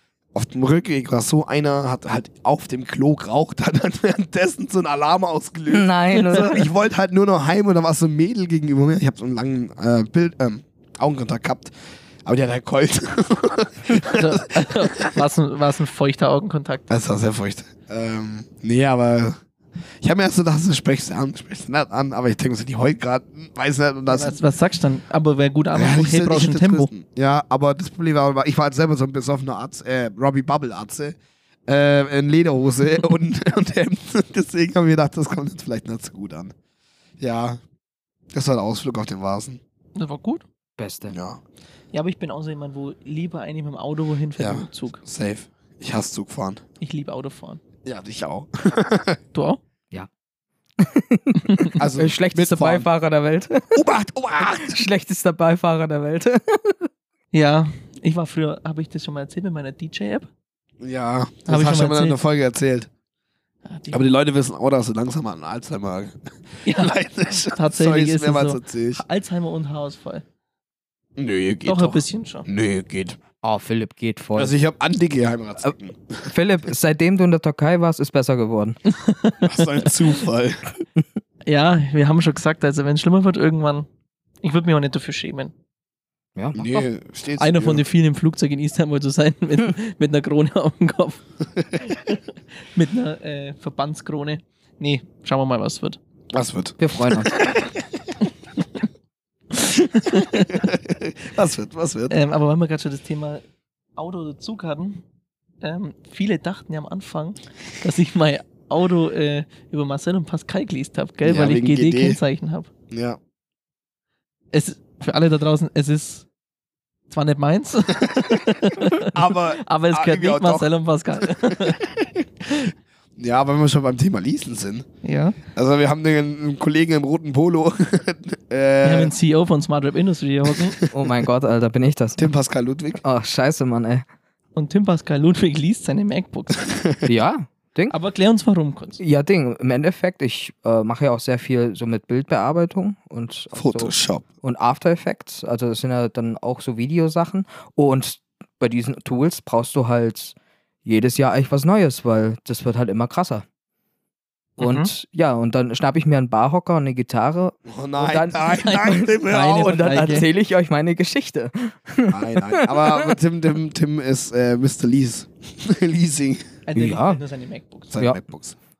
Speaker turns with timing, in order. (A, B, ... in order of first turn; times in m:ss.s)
0:00.3-0:11.7 A
0:05.7-0:06.7 B
0:12.2-0:14.3 A
0:14.1-0:16.9 C
0:16.9-0:19.4 A
0:20.0-0:24.4 A
0:24.1-0:26.9 C
0:25.7-0:36.5 A
0:37.2-0:37.6 A
0:38.3-0:39.6 A
0:40.0-0:40.4 C
0:40.8-0:41.1 B
0:41.1-0:41.4 A
0:41.9-0:45.0 C
0:44.4-0:46.6 A
0:46.8-0:47.6 C
0:47.8-0:49.2 A
0:49.3-0:49.6 C
0:50.8-0:53.8 B
0:51.8-0:52.9 A
0:53.7-0:54.8 A
0:54.5-0:56.9 B
0:57.3-1:00.3 C
1:00.8-1:02.9 A
1:01.5-1:02.2 C
1:03.6-1:04.1 C
1:03.9-1:09.0 A
1:06.6-1:06.9 C
1:07.5-1:10.2 C
1:11.2-1:13.2 A
1:11.6-1:12.4 C
1:13.4-1:14.5 B
1:14.4-1:16.3 A
1:16.2-1:18.8 B
1:18.9-1:19.6 C
1:19.4-1:20.7 A
1:21.4-1:23.8 C
1:24.4-1:25.5 C
1:26.4-1:26.8 B
1:26.5-1:27.9 A
1:27.4-1:31.2 C
1:31.9-1:32.2 C
1:32.7-1:36.0 C
1:36.3-1:37.7 A
1:36.8-1:37.3 B
1:39.6-1:40.6 C
1:40.4-1:42.2 A
1:42.1-1:43.4 C
1:44.0-1:45.0 C
1:45.6-1:52.7 C
1:51.2-1:52.2 A
1:52.9-1:53.2 A
1:54.5-1:56.2 C
1:57.1-1:59.1 C
1:59.1-2:00.7 A
1:59.6-2:01.8 C
2:01.3-2:04.9 A
2:05.0-2:05.4 C
2:05.5-2:09.1 A
2:08.8-2:10.7 C
2:10.6-2:10.9 A
2:10.9-2:12.3 B
2:12.2-2:13.0 A
2:13.0-2:14.0 B
2:14.6-2:16.7 C
2:16.6-2:17.1 A
2:17.0-2:17.9 B
2:17.9-2:19.0 C
2:19.0-2:30.3 B
2:23.5-2:24.2 A
2:30.8-2:33.4 B
2:34.6-2:34.9 C
2:34.6-2:43.0 B
2:37.6-2:39.7 A
2:38.5-2:40.3 C
2:42.1-2:46.4 A
2:46.7-2:47.9 C
2:46.8-2:47.2 B
2:47.9-2:48.6 A